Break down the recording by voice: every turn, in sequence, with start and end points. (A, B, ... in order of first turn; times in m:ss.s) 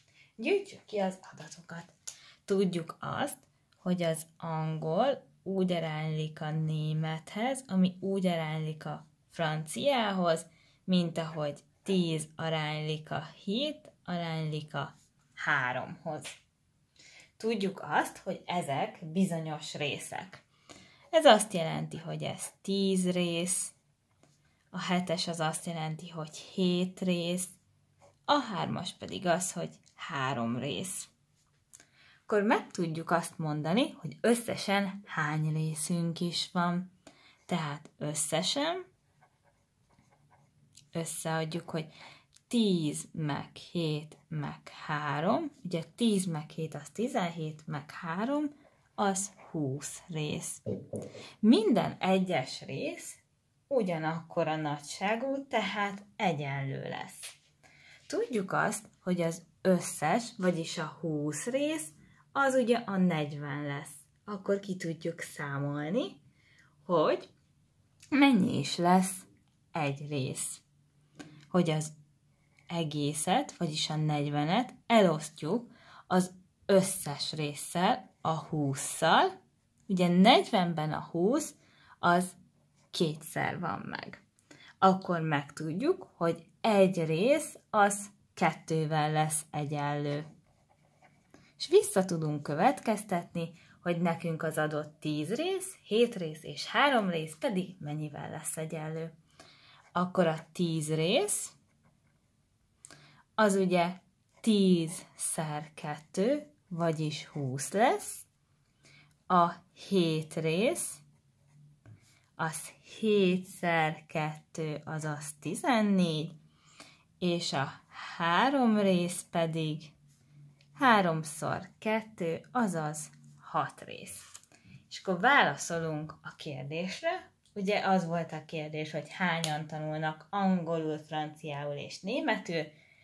0:00.4-0:01.9 A
0:02.5-0:16.4 A
0:17.4-0:20.4 A
0:21.1-0:23.8 A
0:24.7-0:27.6 A
0:28.3-0:31.1 A
0:32.3-0:36.9 A
0:37.5-0:38.9 A
0:40.9-0:41.9 A
0:42.5-0:50.6 A
0:51.4-0:57.4 A
0:58.1-1:06.2 A
1:06.8-1:07.3 A
1:08.1-1:10.6 A
1:11.5-1:11.9 A
1:12.7-1:19.3 A
1:19.9-1:22.4 A
1:22.9-1:24.2 A
1:24.8-1:30.3 A
1:31.6-1:39.2 A
1:40.0-1:41.6 A
1:43.4-1:48.3 A
1:49.3-1:51.0 A
1:52.4-1:56.4 A
1:57.2-1:59.9 A
2:00.8-2:04.3 A
2:04.9-2:12.8 A